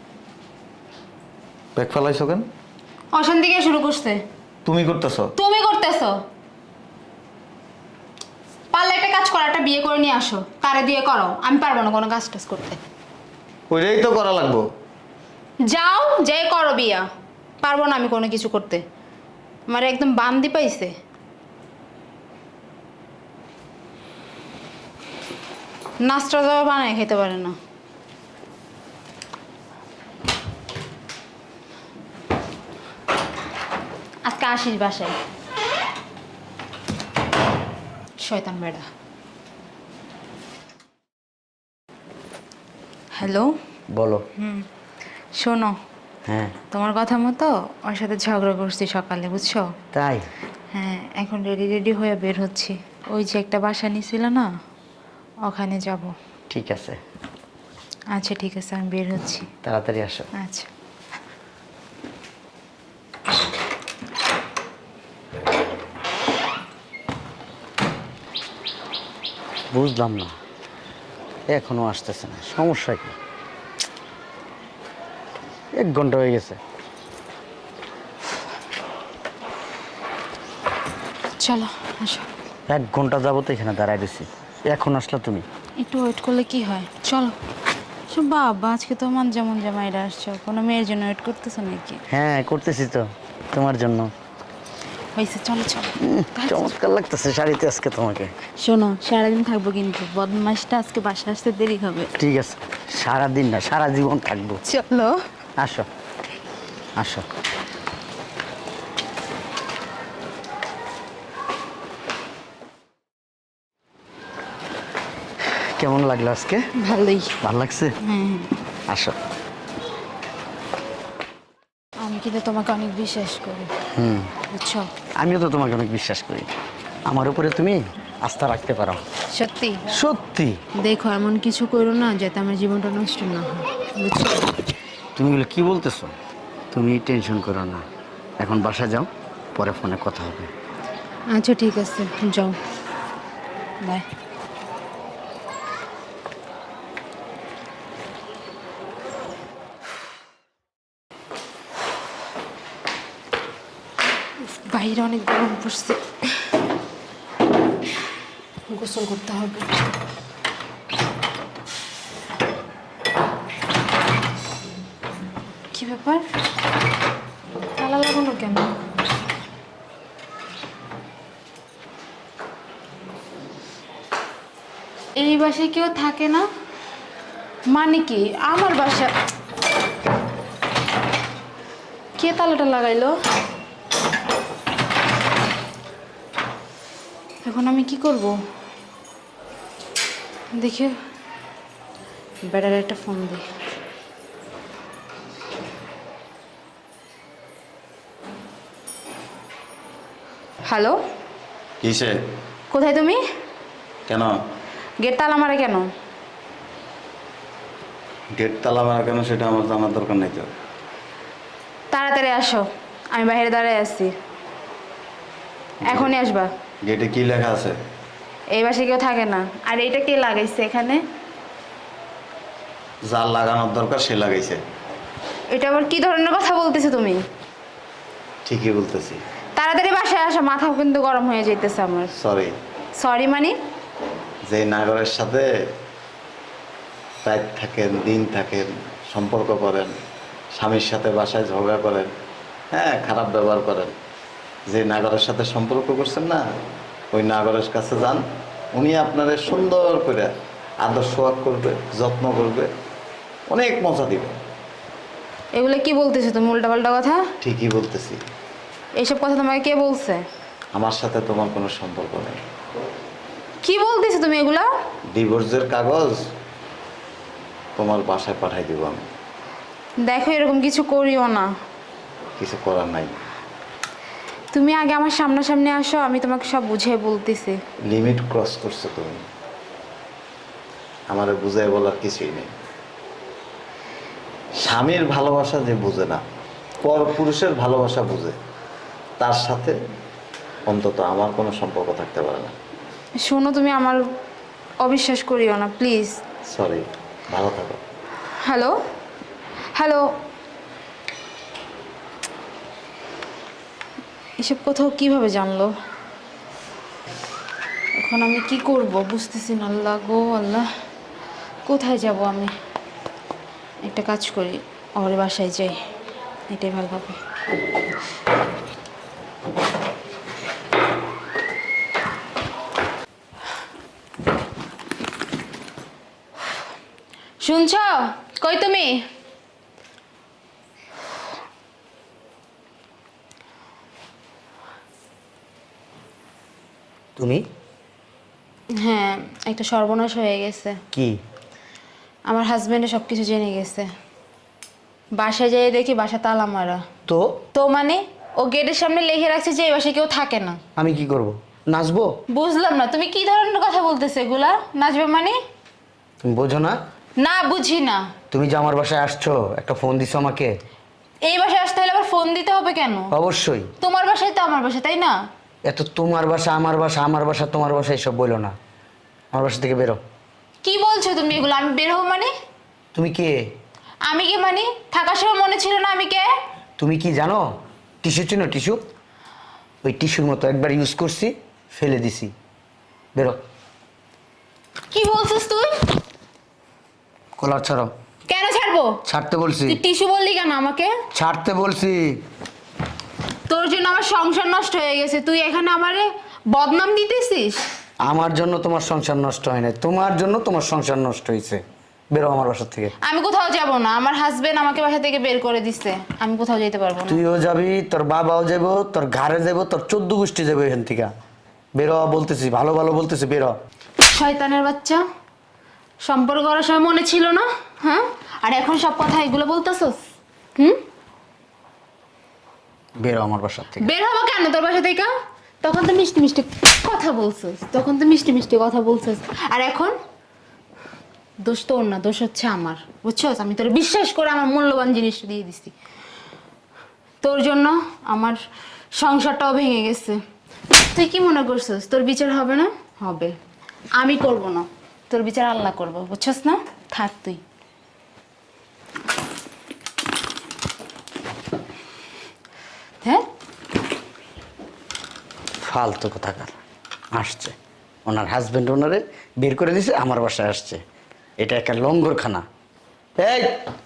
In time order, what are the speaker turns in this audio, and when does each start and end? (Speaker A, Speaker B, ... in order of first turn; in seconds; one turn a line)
Speaker A: 1.8-2.5
Speaker B: 3.1-4.2
Speaker A: 4.7-5.3
Speaker B: 5.3-6.2
Speaker B: 8.7-12.8
Speaker A: 13.7-14.7
Speaker B: 15.7-17.1
Speaker B: 17.6-18.8
Speaker B: 19.7-20.9
Speaker B: 26.0-27.6
Speaker B: 34.2-35.2
Speaker B: 38.2-38.9
Speaker B: 43.1-43.5
Speaker C: 43.9-44.2
Speaker B: 44.4-44.7
Speaker B: 45.4-45.8
Speaker C: 46.3-46.5
Speaker B: 46.7-49.7
Speaker C: 49.9-50.3
Speaker B: 50.7-54.5
Speaker B: 55.5-56.1
Speaker C: 56.5-57.0
Speaker B: 58.1-59.5
Speaker C: 59.6-60.3
Speaker B: 60.4-60.7
Speaker C: 69.7-70.3
Speaker C: 71.5-73.1
Speaker C: 75.8-76.6
Speaker B: 81.4-82.3
Speaker C: 82.7-85.4
Speaker B: 85.8-87.3
Speaker B: 88.1-92.0
Speaker C: 92.1-94.1
Speaker B: 95.1-96.7
Speaker C: 96.0-98.3
Speaker B: 98.6-102.1
Speaker C: 102.2-104.6
Speaker B: 104.6-105.2
Speaker C: 105.6-105.9
Speaker C: 107.0-107.2
Speaker C: 115.5-116.6
Speaker B: 116.8-117.3
Speaker C: 117.4-117.9
Speaker B: 118.0-118.5
Speaker C: 118.9-119.2
Speaker B: 122.0-123.7
Speaker C: 123.9-124.3
Speaker B: 124.5-124.9
Speaker C: 125.2-126.5
Speaker C: 127.1-129.0
Speaker B: 129.3-129.9
Speaker C: 129.9-130.6
Speaker B: 130.8-134.5
Speaker C: 135.2-136.1
Speaker C: 136.7-137.8
Speaker C: 138.4-140.5
Speaker B: 141.3-142.6
Speaker B: 154.4-156.0
Speaker B: 158.7-159.8
Speaker B: 165.7-166.2
Speaker B: 167.8-168.7
Speaker B: 175.2-176.4
Speaker B: 177.7-179.1
Speaker B: 182.2-183.1
Speaker B: 187.4-188.3
Speaker B: 190.6-190.9
Speaker B: 192.4-193.4
Speaker B: 200.6-201.0
Speaker A: 201.8-202.2
Speaker B: 202.7-203.2
Speaker A: 204.1-204.3
Speaker B: 205.0-205.9
Speaker A: 208.3-210.5
Speaker B: 211.9-214.1
Speaker B: 215.8-216.5
Speaker A: 215.8-216.1
Speaker A: 216.8-217.8
Speaker B: 218.5-221.0
Speaker A: 223.0-224.6
Speaker B: 225.5-227.2
Speaker A: 228.4-229.2
Speaker B: 229.6-232.1
Speaker A: 232.2-232.5
Speaker B: 233.0-233.5
Speaker A: 234.5-235.5
Speaker A: 237.2-240.0
Speaker A: 240.6-242.1
Speaker A: 242.7-243.9
Speaker A: 244.7-246.4
Speaker A: 247.1-252.7
Speaker A: 253.5-254.3
Speaker B: 255.6-257.2
Speaker A: 257.4-258.2
Speaker B: 259.0-260.2
Speaker A: 260.7-262.4
Speaker B: 263.6-264.7
Speaker A: 265.1-266.2
Speaker A: 267.8-269.0
Speaker B: 270.0-271.5
Speaker A: 272.4-273.2
Speaker B: 274.5-277.6
Speaker A: 277.9-279.2
Speaker A: 281.1-282.5
Speaker A: 284.6-286.2
Speaker A: 286.8-288.4
Speaker A: 289.2-289.7
Speaker A: 290.7-292.5
Speaker B: 293.2-294.0
Speaker B: 294.8-296.2
Speaker A: 296.5-297.8
Speaker B: 298.4-298.8
Speaker B: 299.7-300.1
Speaker B: 304.4-305.7
Speaker B: 308.0-310.7
Speaker B: 311.6-312.5
Speaker B: 313.8-315.8
Speaker B: 316.5-317.2
Speaker B: 327.4-329.0
Speaker C: 337.2-337.4
Speaker B: 338.7-340.8
Speaker C: 340.9-341.2
Speaker B: 342.3-343.9
Speaker B: 345.2-346.8
Speaker C: 347.1-347.4
Speaker B: 347.5-350.6
Speaker C: 350.8-352.1
Speaker B: 352.3-355.4
Speaker C: 356.2-356.8
Speaker B: 357.2-358.1
Speaker C: 358.3-360.5
Speaker B: 361.2-363.1
Speaker C: 363.1-363.7
Speaker B: 363.8-365.1
Speaker C: 365.7-368.5
Speaker C: 369.3-370.0
Speaker B: 370.6-372.3
Speaker C: 372.9-373.4
Speaker B: 374.1-376.3
Speaker C: 376.8-377.4
Speaker C: 378.0-378.8
Speaker C: 379.8-382.3
Speaker B: 384.9-385.9
Speaker C: 387.4-387.9
Speaker B: 388.3-389.0
Speaker C: 389.1-389.8
Speaker B: 389.7-390.9
Speaker C: 391.1-392.1
Speaker B: 393.5-397.6
Speaker C: 398.0-402.9
Speaker B: 403.0-407.2
Speaker C: 407.1-411.1
Speaker C: 411.8-413.5
Speaker B: 414.0-415.0
Speaker B: 416.0-420.0
Speaker C: 423.0-423.9
Speaker B: 423.8-425.1
Speaker B: 425.6-429.9
Speaker B: 431.4-435.7
Speaker B: 437.2-438.4
Speaker B: 438.9-440.2
Speaker B: 440.7-443.4
Speaker B: 444.0-447.4
Speaker C: 455.6-456.5
Speaker C: 457.1-457.5
Speaker C: 458.1-460.8
Speaker C: 461.4-462.4
Speaker C: 463.2-463.6